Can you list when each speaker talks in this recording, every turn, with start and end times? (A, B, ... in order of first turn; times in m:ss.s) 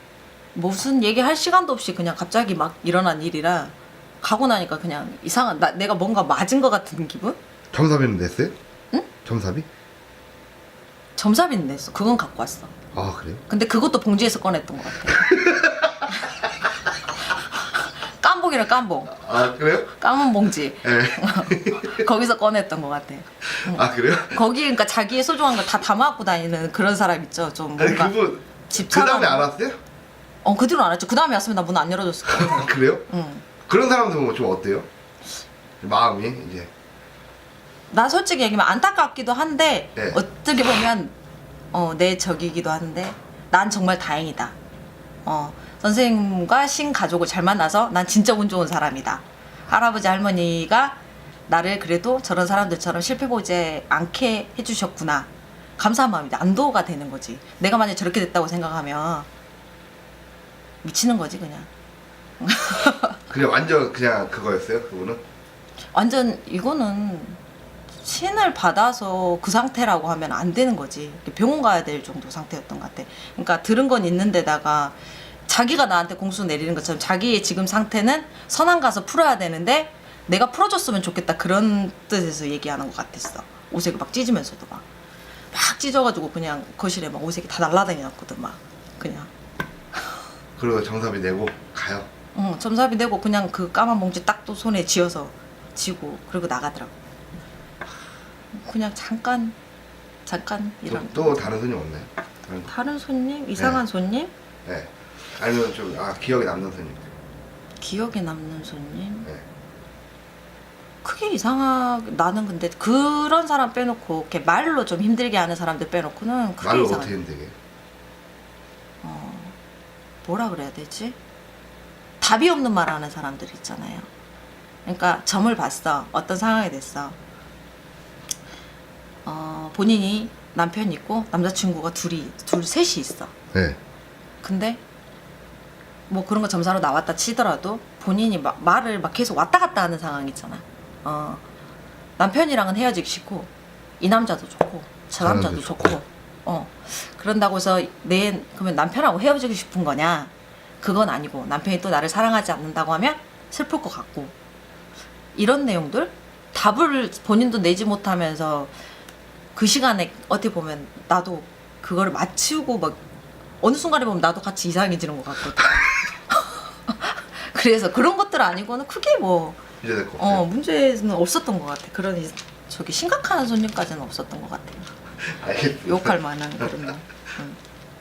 0:00.5-0:07.4 A
0:07.7-0:08.6 B
0:09.2-0:09.7 B
0:11.2-0:12.7 A
0:12.9-0:13.4 B
0:13.5-0:15.4 A
0:15.3-0:16.1 B
0:17.5-0:19.3 A
0:19.2-0:19.9 B
0:19.9-0:28.2 A
0:20.8-0:22.0 B
0:23.6-0:24.4 B
0:27.8-0:29.8 B
0:28.7-0:29.5 A
0:30.4-0:33.4 A
0:32.3-0:33.1 B
0:33.6-0:34.9 B
0:35.8-0:36.7 B
0:37.9-0:41.1 A
0:41.7-0:44.6 A
0:45.2-0:59.3 A
1:00.8-1:01.7 A
1:02.4-1:03.2 A
1:03.3-1:05.2 B
1:05.9-1:07.4 A
1:08.0-1:24.8 A
1:25.5-1:29.3 A
1:30.6-1:32.1 B
1:32.3-1:36.9 A
1:38.5-1:39.5 A
1:40.2-1:41.5 A
1:40.9-1:42.7 B
1:42.7-1:44.3 A
1:43.6-1:43.8 B
1:44.6-1:47.1 B
1:47.8-1:49.3 A
1:51.0-1:57.1 A
1:56.6-1:57.5 B
1:59.0-1:59.6 A
2:00.2-2:01.2 A
2:02.2-2:04.1 A
2:04.8-2:07.2 A
2:09.2-2:13.3 A
2:13.5-2:13.8 B
2:14.4-2:14.8 A
2:16.1-2:21.4 A
2:22.2-2:34.3 A
2:25.2-2:26.0 B
2:35.3-2:38.7 A
2:39.5-2:43.0 A
2:43.6-2:49.6 A
2:49.8-2:50.4 B
2:50.2-2:54.9 A
2:55.2-2:56.7 B
2:55.8-2:57.6 A